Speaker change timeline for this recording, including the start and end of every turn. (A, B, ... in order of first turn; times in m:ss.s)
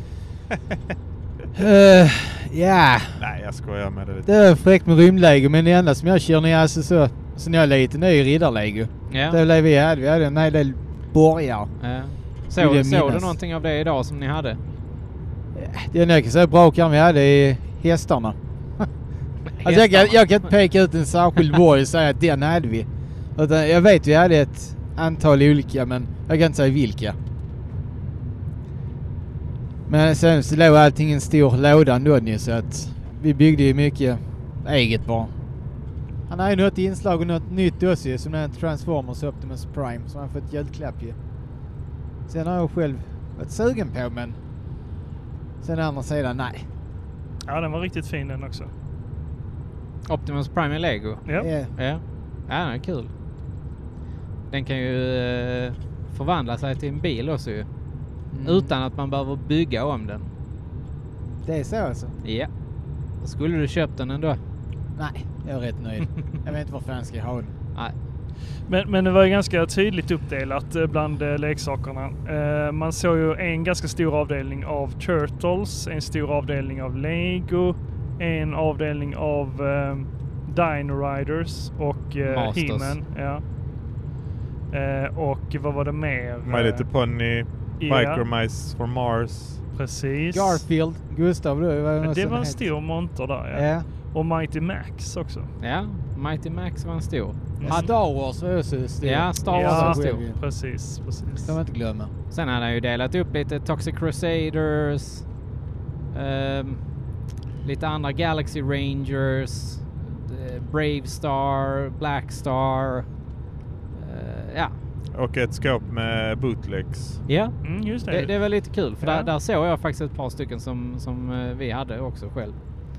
0:01.5-0:03.2 A
0:03.2-0:04.3 B
0:04.2-0:11.7 A
0:09.1-0:09.4 C
0:11.8-0:14.6 C
0:12.5-0:13.3 A
0:15.5-0:18.9 A
0:19.6-0:20.5 C
0:19.6-0:27.2 A
0:29.9-0:35.3 A
0:36.3-0:41.2 A
0:42.3-0:44.4 A
0:45.6-0:46.6 A
0:47.5-0:48.7 D
0:50.0-0:53.1 C
0:51.2-0:51.5 D
0:51.4-0:51.7 A
0:54.5-0:57.7 C
0:58.3-0:58.7 A
0:58.4-1:00.3 C
1:01.4-1:02.1 A
1:02.2-1:02.5 C
1:03.2-1:04.4 C
1:05.0-1:07.5 A
1:08.7-1:23.4 D
1:22.2-1:23.0 C
1:24.7-1:26.9 D
1:26.4-1:29.6 B
1:27.8-1:28.3 D
1:29.7-1:30.6 D
1:30.3-1:32.7 A
1:32.0-1:35.5 D
1:33.5-1:33.8 A
1:35.6-1:37.8 C
1:37.6-1:37.9 D
1:37.6-1:40.4 A
1:39.0-1:40.2 C
1:39.5-1:41.5 D
1:41.4-1:42.1 A
1:42.3-1:45.2 C
1:46.1-1:46.8 C
1:47.6-1:53.1 C
1:53.9-1:54.7 C
1:55.1-1:57.2 B
1:57.2-2:02.6 C
1:57.6-1:59.3 D